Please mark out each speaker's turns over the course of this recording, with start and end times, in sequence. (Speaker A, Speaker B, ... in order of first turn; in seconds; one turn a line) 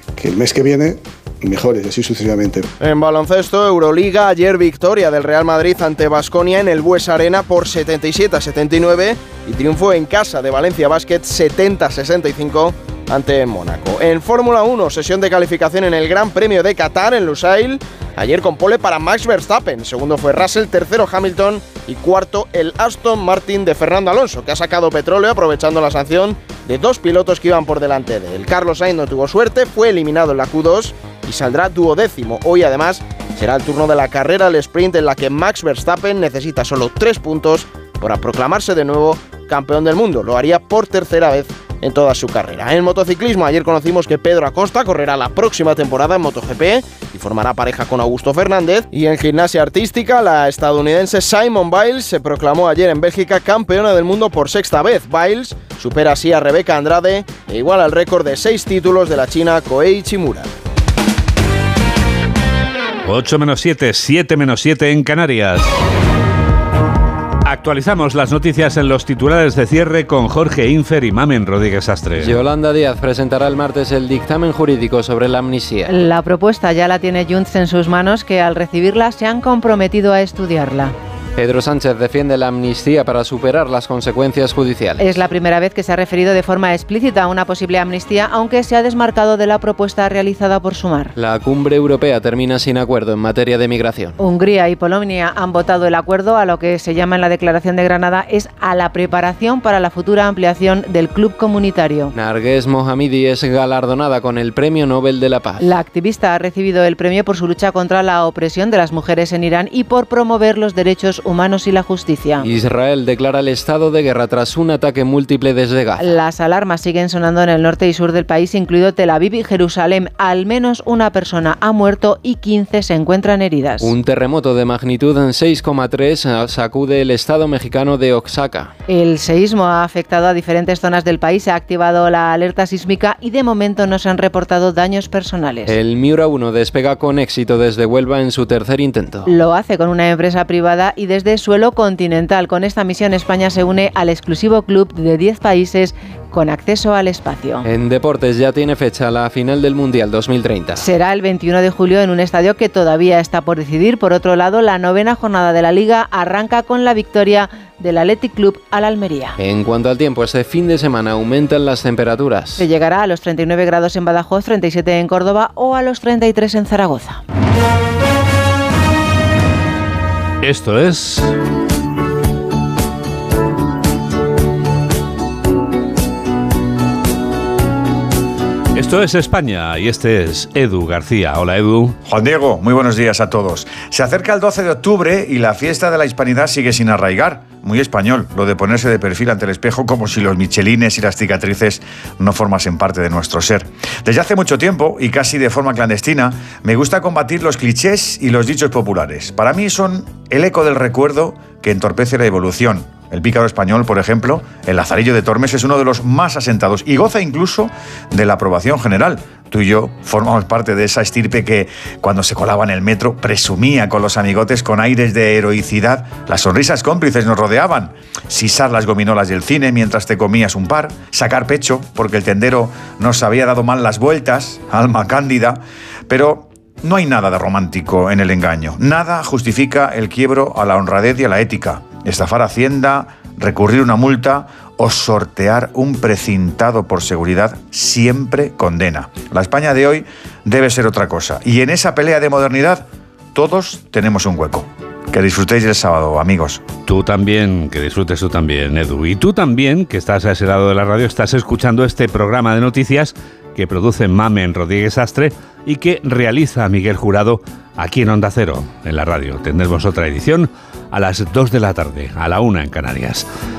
Speaker A: 0.2-2.7
Speaker B: 2.8-60.5
Speaker C: 63.0-65.7
Speaker C: 67.5-72.4
Speaker D: 72.2-76.0
Speaker E: 75.9-80.9
Speaker D: 81.4-85.1
Speaker E: 85.0-91.1
Speaker D: 91.2-94.2
Speaker E: 94.2-102.1
Speaker D: 102.1-105.6
Speaker E: 105.6-112.5
Speaker D: 112.4-116.1
Speaker E: 116.0-123.9
Speaker D: 123.8-128.7
Speaker E: 128.9-135.7
Speaker D: 135.7-139.3
Speaker E: 139.3-147.6
Speaker D: 147.6-150.9
Speaker E: 150.8-159.3
Speaker D: 159.4-162.7
Speaker E: 162.6-167.2
Speaker C: 170.4-171.3
Speaker C: 178.7-182.0
Speaker F: 182.1-246.6
Speaker C: 246.8-263.2